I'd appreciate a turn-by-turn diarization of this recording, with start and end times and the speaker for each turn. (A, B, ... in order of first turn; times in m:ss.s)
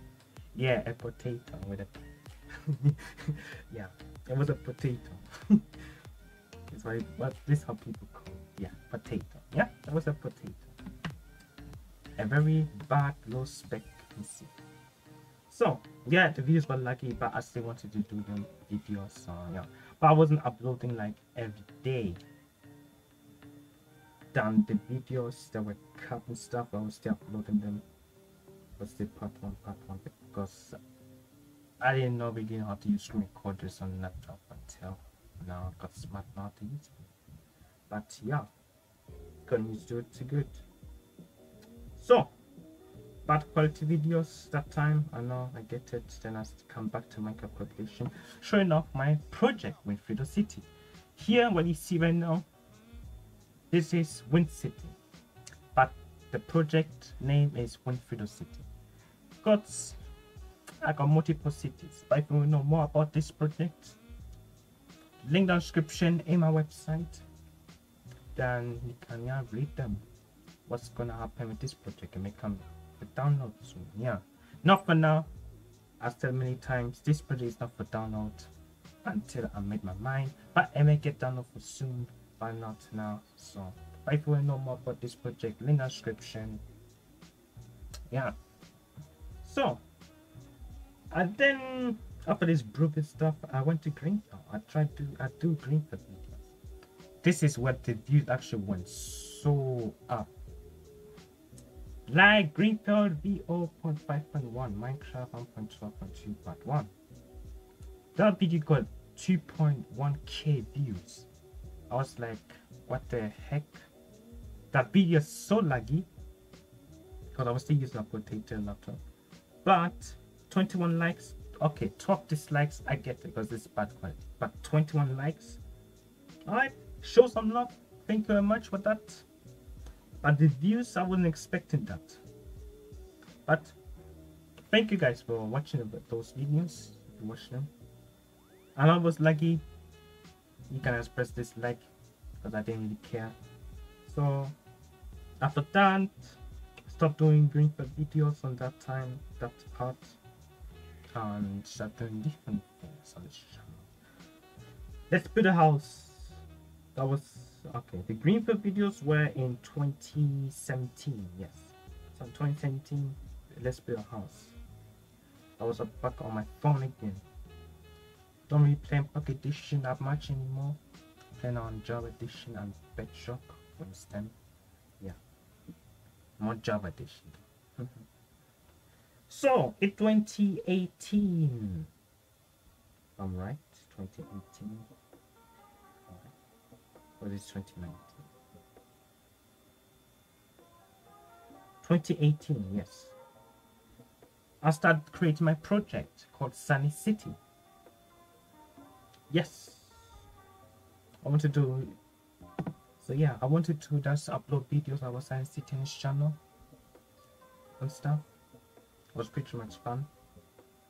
0:00.5-0:06.0 A
0:06.7-0:10.8 A
0:12.2-0:14.6 A
0:15.5-0:22.2 A
0:24.3-0:27.8 A
0:28.8-0:30.8 A
0:31.8-0:37.1 A
0:37.9-0:38.5 A
0:39.5-0:40.6 A
0:42.0-0:42.3 A
0:43.3-0:52.5 A
0:53.7-0:55.0 A
0:55.7-0:58.7 A
0:59.4-1:00.0 A
1:00.8-1:04.0 A
1:05.2-1:07.2 A
1:08.4-1:10.1 A
1:10.7-1:15.3 A
1:16.0-1:18.5 A
1:19.0-1:26.6 A
1:29.4-1:29.8 A
1:31.1-1:36.5 A
1:37.2-1:40.3 A
1:42.1-1:46.9 A
1:48.2-1:51.3 A
1:51.9-1:53.8 A
1:54.7-1:56.1 A
1:57.3-1:59.0 A
1:59.6-2:05.6 A
2:06.5-2:09.3 A
2:10.2-2:12.2 A
2:13.5-2:13.8 A
2:14.7-2:17.7 A
2:18.8-2:19.6 A
2:20.7-2:21.9 A
2:22.4-2:23.4 A
2:24.0-2:24.6 A
2:25.4-2:30.2 A
2:31.1-2:33.9 A
2:35.1-2:36.4 A
2:37.0-2:44.6 A
2:45.6-2:47.3 A
2:48.5-2:50.8 A
2:51.4-2:54.4 A
2:56.4-2:58.0 A
2:59.3-3:01.9 A
3:03.2-3:04.9 A
3:06.1-3:06.3 A
3:07.2-3:08.3 A
3:11.8-3:13.2 A
3:14.6-3:17.4 A
3:19.3-3:20.1 A
3:21.2-3:22.0 A
3:23.0-3:26.4 A
3:27.8-3:28.3 A
3:29.1-3:30.1 A